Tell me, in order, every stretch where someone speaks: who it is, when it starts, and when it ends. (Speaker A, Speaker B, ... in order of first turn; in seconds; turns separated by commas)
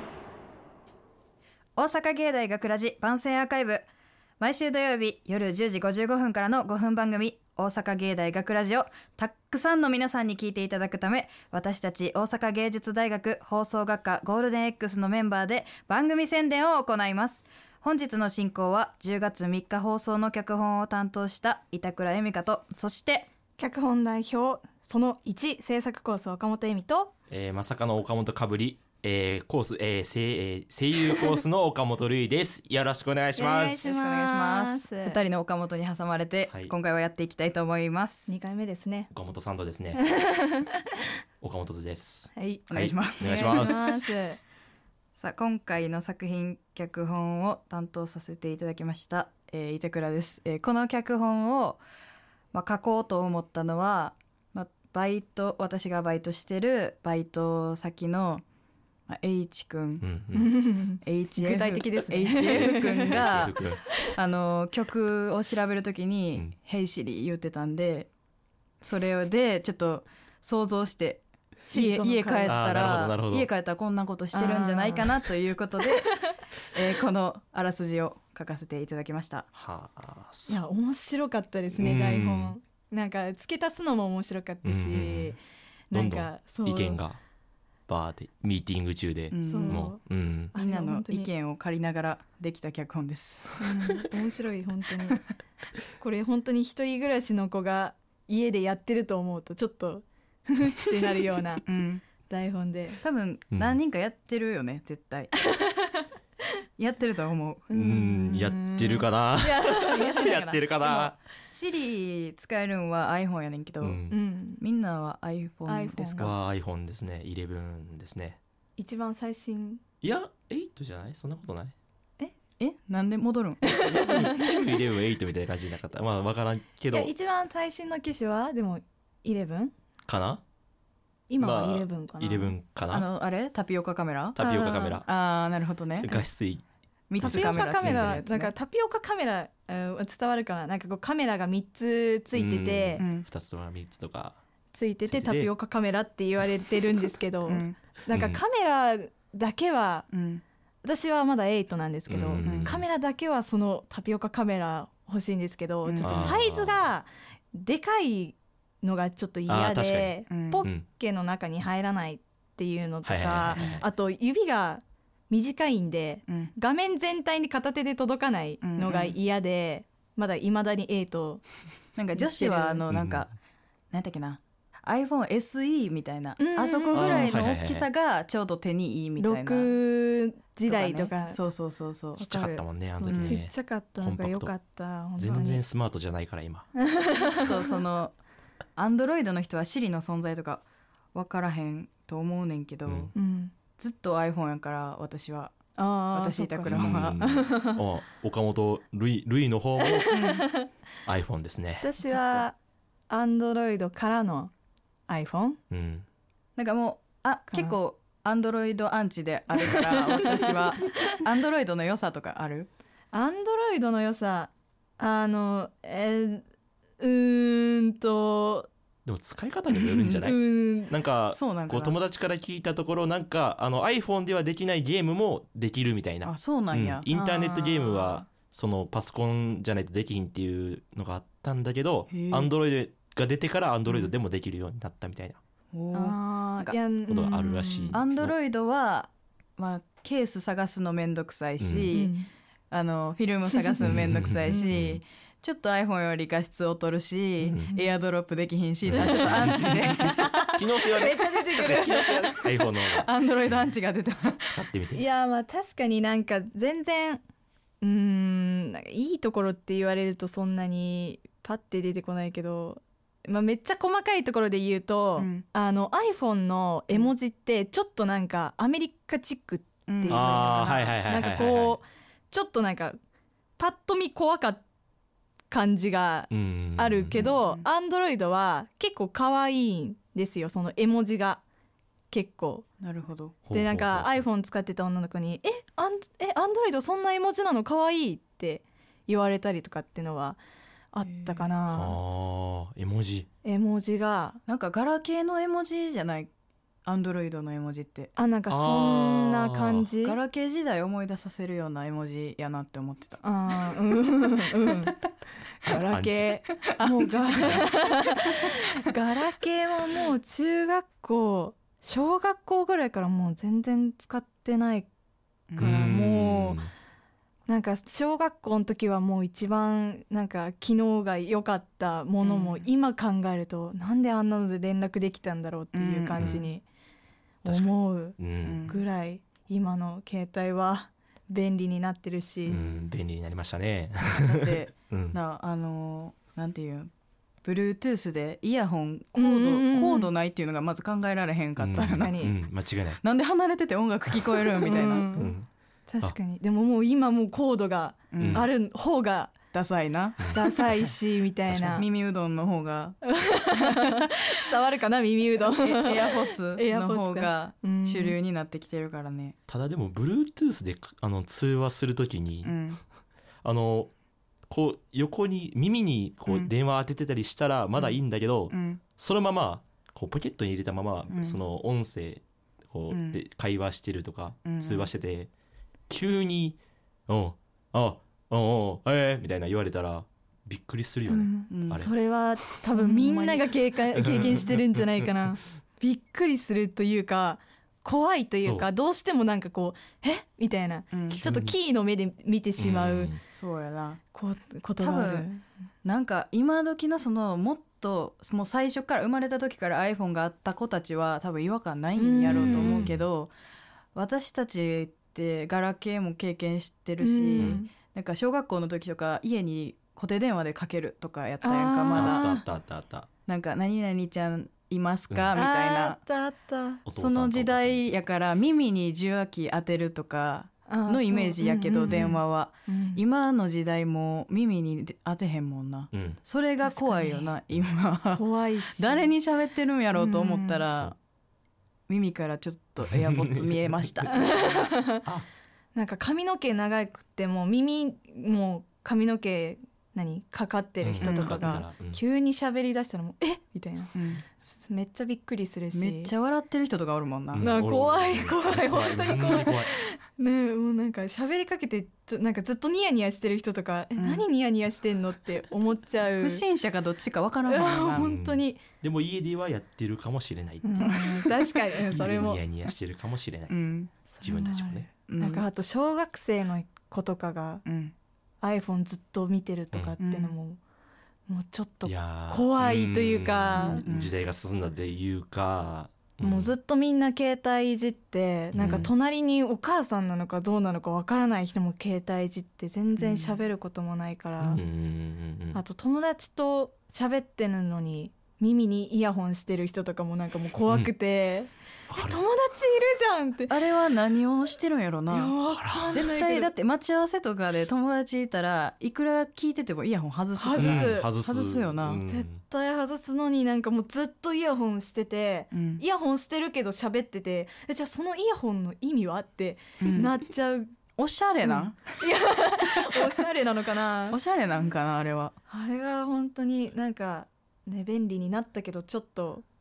Speaker A: 1.8-3.9, Speaker A: 4.4-23.3, Speaker B: 23.6-27.1, Speaker C: 27.3-34.1, Speaker B: 33.4-35.2, Speaker A: 33.8-38.3, Speaker C: 36.5-36.7, Speaker B: 38.3-39.1, Speaker C: 39.1-40.0, Speaker B: 39.9-40.7, Speaker C: 41.4-44.0, Speaker B: 42.3-44.4, Speaker A: 42.7-44.0, Speaker A: 45.2-51.8, Speaker A: 52.5-58.4, Speaker A: 59.1-60.0, Speaker C: 60.0-60.5, Speaker B: 60.3-63.4, Speaker A: 61.0-63.6, Speaker C: 63.1-63.8, Speaker A: 64.1-68.1, Speaker A: 68.8-76.1, Speaker B: 71.7-73.0, Speaker C: 72.5-73.5, Speaker B: 74.3-75.2, Speaker A: 76.7-79.5, Speaker C: 79.5-80.6, Speaker B: 80.5-85.4, Speaker C: 81.8-82.5, Speaker C: 84.6-85.4, Speaker B: 85.9-87.0, Speaker C: 85.9-87.2, Speaker C: 87.9-90.5, Speaker A: 89.3-89.9, Speaker B: 89.5-90.0, Speaker B: 90.5-91.3, Speaker A: 90.5-93.6, Speaker B: 93.6-95.2, Speaker B: 96.0-101.7, Speaker A: 101.6-102.0, Speaker B: 102.2-103.0, Speaker A: 103.0-105.3, Speaker C: 103.5-103.8, Speaker A: 106.8-107.7, Speaker B: 107.7-110.3, Speaker C: 107.7-111.2, Speaker A: 110.0-114.0, Speaker C: 113.8-114.2, Speaker B: 114.1-114.6, Speaker A: 114.6-116.3, Speaker B: 115.7-116.3, Speaker C: 116.2-118.4, Speaker B: 118.8-119.8, Speaker C: 120.0-121.7, Speaker A: 122.6-123.6, Speaker B: 123.6-124.6, Speaker C: 123.8-127.1, Speaker B: 126.9-129.7, Speaker C: 130.1-130.4, Speaker B: 131.3-132.5, Speaker C: 131.4-133.1, Speaker A: 132.9-136.2, Speaker C: 134.3-135.1, Speaker C: 136.0-136.6, Speaker A: 137.1-138.5, Speaker B: 137.2-143.0, Speaker C: 137.2-138.2, Speaker C: 142.3-144.4, Speaker A: 143.0-143.2, Speaker B: 144.7-150.1, Speaker C: 145.1-145.5, Speaker A: 147.5-147.8, Speaker C: 148.1-148.4, Speaker A: 150.1-150.4, Speaker B: 150.8-171.4, Speaker C: 152.1-152.8, Speaker A: 152.4-152.8, Speaker A: 155.8-156.3, Speaker C: 156.0-156.9, Speaker C: 159.5-160.8, Speaker A: 160.3-160.7, Speaker C: 163.0-163.8, Speaker A: 166.3-166.5, Speaker A: 168.6-169.2, Speaker A: 171.9-173.3, Speaker B: 172.1-172.8, Speaker C: 172.9-173.3, Speaker A: 173.9-179.7, Speaker B: 176.4-177.4, Speaker C: 176.9-177.9, Speaker B: 179.2-181.4, Speaker A: 180.7-182.2, Speaker B: 182.2-185.6, Speaker C: 182.2-184.5, Speaker A: 183.0-183.4, Speaker C: 185.2-186.7, Speaker B: 186.8-187.5, Speaker A: 187.4-188.2, Speaker A: 188.8-190.6, Speaker A: 191.1-193.1, Speaker B: 193.1-193.5, Speaker A: 193.8-195.5, Speaker B: 195.8-197.8, Speaker A: 196.1-197.2, Speaker C: 196.6-200.1, Speaker B: 199.8-200.7, Speaker A: 200.1-200.4, Speaker C: 201.1-202.4, Speaker B: 201.8-202.6, Speaker B: 203.1-204.5, Speaker B: 205.1-205.6, Speaker C: 205.7-206.1, Speaker A: 206.6-212.7, Speaker B: 207.5-207.8, Speaker B: 209.6-210.3, Speaker B: 210.8-211.1, Speaker B: 213.1-216.4, Speaker B: 217.0-218.7, Speaker C: 219.0-235.4, Speaker A: 220.0-220.2, Speaker B: 220.2-220.9, Speaker A: 221.3-222.0, Speaker A: 226.2-227.1, Speaker B: 227.1-228.3, Speaker A: 232.1-232.5, Speaker A: 235.7-236.8, Speaker B: 235.9-238.0, Speaker C: 237.1-238.3, Speaker A: 237.9-242.1, Speaker C: 241.6-241.9, Speaker B: 241.9-242.3, Speaker A: 242.7-250.3, Speaker C: 243.8-245.0, Speaker C: 247.4-247.7, Speaker C: 248.9-249.7, Speaker B: 249.0-252.5, Speaker C: 250.5-253.1, Speaker A: 252.9-254.6, Speaker C: 254.4-255.0, Speaker B: 254.9-257.2, Speaker B: 257.8-273.0, Speaker A: 265.2-265.4, Speaker A: 269.9-270.6, Speaker C: 270.1-271.8, Speaker B: 273.6-274.6, Speaker B: 275.5-281.4, Speaker C: 276.3-277.3, Speaker A: 277.2-277.6, Speaker B: 282.1-282.6, Speaker A: 282.8-283.4, Speaker C: 283.5-284.2, Speaker B: 283.5-290.4, Speaker B: 290.9-292.0, Speaker A: 291.0-291.5, Speaker C: 291.7-293.3, Speaker B: 293.4-294.4, Speaker A: 294.4-296.3, Speaker A: 296.9-298.1, Speaker B: 298.1-300.2, Speaker C: 298.5-299.9, Speaker A: 300.0-303.2, Speaker B: 303.2-305.0, Speaker B: 305.6-314.9, Speaker C: 305.8-306.3, Speaker A: 306.7-308.5, Speaker A: 315.5-315.9, Speaker B: 315.6-316.6, Speaker C: 315.6-316.7, Speaker B: 317.5-326.6, Speaker A: 322.2-322.7, Speaker A: 325.7-326.5, Speaker C: 326.2-326.4, Speaker B: 327.4-332.6, Speaker C: 327.4-328.6, Speaker A: 328.4-328.8, Speaker C: 332.5-335.2, Speaker A: 332.5-332.8, Speaker A: 334.2-336.9, Speaker A: 337.4-342.1, Speaker B: 339.1-340.1, Speaker C: 341.6-343.0, Speaker B: 341.7-342.3, Speaker A: 343.0-345.1, Speaker B: 344.6-345.4, Speaker C: 345.1-345.5, Speaker B: 345.9-349.3, Speaker A: 348.1-348.5, Speaker C: 348.2-348.5, Speaker A: 349.5-350.4, Speaker C: 350.2-350.9, Speaker B: 350.3-351.9, Speaker C: 351.4-351.8, Speaker A: 351.7-353.0, Speaker B: 353.0-358.2, Speaker A: 353.6-354.0, Speaker A: 355.4-359.4, Speaker C: 359.5-362.6, Speaker A: 362.4-362.8, Speaker C: 363.4-363.9, Speaker C: 364.5-375.3, Speaker A: 368.5-368.8, Speaker A: 371.1-371.4, Speaker A: 372.9-373.2, Speaker A: 374.4-374.9, Speaker C: 375.9-381.9, Speaker B: 381.1-393.1, Speaker A: 381.5-381.8, Speaker A: 382.7-383.4, Speaker C: 383.9-384.6, Speaker C: 388.4-388.7, Speaker A: 390.9-391.2, Speaker C: 391.1-391.6, Speaker C: 392.6-393.2, Speaker A: 393.2-394.0, Speaker B: 394.1-395.4, Speaker A: 394.8-395.3, Speaker A: 395.8-403.3, Speaker B: 401.9-402.8, Speaker C: 402.2-403.1, Speaker A: 403.9-412.4, Speaker B: 407.0-407.7, Speaker C: 407.4-407.6, Speaker B: 411.4-412.4, Speaker C: 411.9-413.1, Speaker A: 413.3-416.0, Speaker B: 415.3-416.8, Speaker C: 416.9-417.9, Speaker A: 416.9-428.2, Speaker B: 420.7-423.0, Speaker C: 421.9-422.1, Speaker C: 425.9-426.2, Speaker B: 426.6-427.3, Speaker B: 428.1-429.1, Speaker A: 428.7-430.9, Speaker B: 429.9-430.6, Speaker A: 431.9-434.6, Speaker C: 433.0-433.5, Speaker B: 434.1-435.0, Speaker B: 435.7-446.1, Speaker C: 440.8-442.0, Speaker A: 441.0-441.6, Speaker A: 443.9-444.2, Speaker A: 445.7-447.4, Speaker C: 447.3-449.7, Speaker B: 447.4-456.4, Speaker A: 454.0-454.2, Speaker A: 456.2-458.1, Speaker B: 457.5-458.6, Speaker C: 457.9-460.9, Speaker B: 460.6-462.4, Speaker A: 460.8-461.3, Speaker C: 461.9-463.5, Speaker A: 463.5-463.9, Speaker B: 464.1-467.6, Speaker C: 464.2-464.9, Speaker A: 465.1-465.4, Speaker A: 467.6-467.9, Speaker B: 468.4-470.6, Speaker A: 470.0-470.3, Speaker B: 471.3-473.8, Speaker C: 471.8-476.5, Speaker A: 473.6-474.1, Speaker B: 476.2-484.6, Speaker C: 478.5-478.9, Speaker A: 483.0-483.3, Speaker C: 484.4-485.6, Speaker B: 485.5-493.6, Speaker C: 491.9-492.2, Speaker A: 493.5-495.4, Speaker B: 495.1-496.5, Speaker C: 495.5-496.0, Speaker A: 495.9-502.0, Speaker B: 500.4-501.1, Speaker C: 500.5-502.4, Speaker B: 502.0-510.7, Speaker A: 505.5-505.8, Speaker A: 509.8-510.1, Speaker A: 511.0-511.8, Speaker B: 511.4-514.2, Speaker A: 514.1-515.3, Speaker B: 515.5-519.4